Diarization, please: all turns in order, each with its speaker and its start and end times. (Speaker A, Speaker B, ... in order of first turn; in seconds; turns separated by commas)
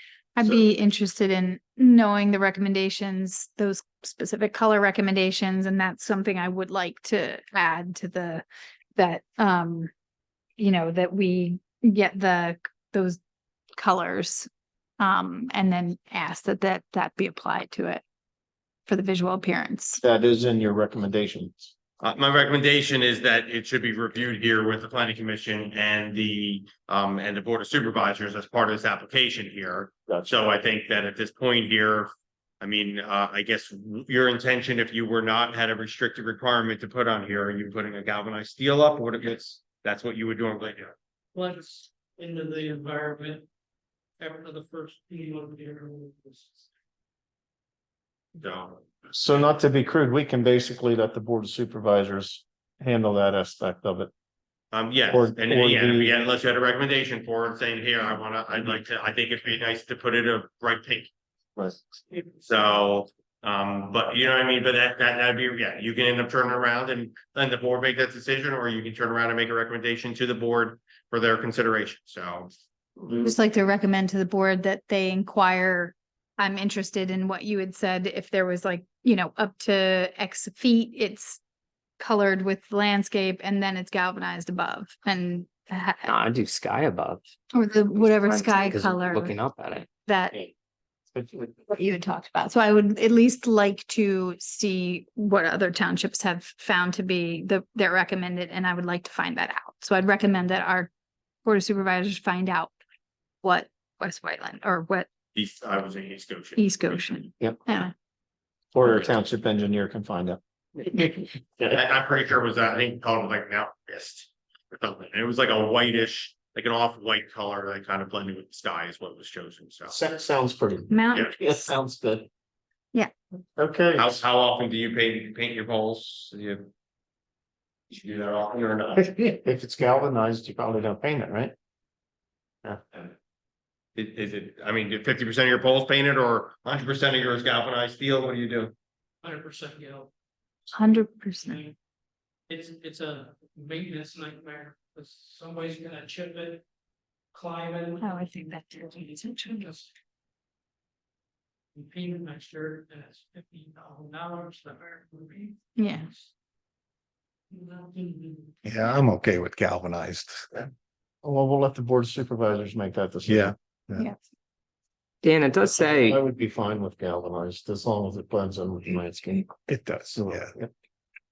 Speaker A: 0.3-9.9, Speaker A: 10.6-13.2, Speaker A: 13.8-18.0, Speaker A: 18.9-20.0, Speaker B: 20.0-21.7, Speaker C: 22.0-40.9, Speaker D: 41.3-43.5, Speaker D: 44.2-46.6, Speaker C: 48.4-48.8, Speaker B: 49.1-54.1, Speaker C: 54.7-61.1, Speaker B: 55.1-56.1, Speaker C: 62.4-72.5, Speaker A: 73.1-81.4, Speaker A: 82.0-86.2, Speaker E: 86.0-87.2, Speaker A: 87.5-89.4, Speaker E: 88.0-89.9, Speaker A: 90.0-90.5, Speaker B: 91.2-91.5, Speaker A: 91.6-100.9, Speaker A: 101.4-102.7, Speaker A: 103.4-105.1, Speaker C: 105.3-107.0, Speaker A: 106.5-107.9, Speaker B: 107.4-107.6, Speaker B: 108.7-110.4, Speaker C: 111.6-120.0, Speaker B: 119.9-122.3, Speaker A: 120.9-121.4, Speaker B: 123.6-124.2, Speaker C: 124.0-126.7, Speaker C: 127.9-129.1, Speaker B: 129.1-131.5, Speaker C: 133.9-138.7, Speaker D: 139.2-140.1, Speaker A: 140.7-141.6, Speaker D: 141.0-141.7, Speaker D: 142.5-146.6, Speaker D: 147.3-149.9, Speaker A: 148.0-149.6, Speaker D: 151.7-156.3, Speaker A: 155.8-156.1, Speaker D: 157.5-158.5, Speaker F: 158.6-160.7, Speaker B: 161.2-163.5, Speaker F: 163.2-164.1, Speaker E: 165.2-166.2, Speaker B: 165.7-170.7, Speaker F: 169.7-170.5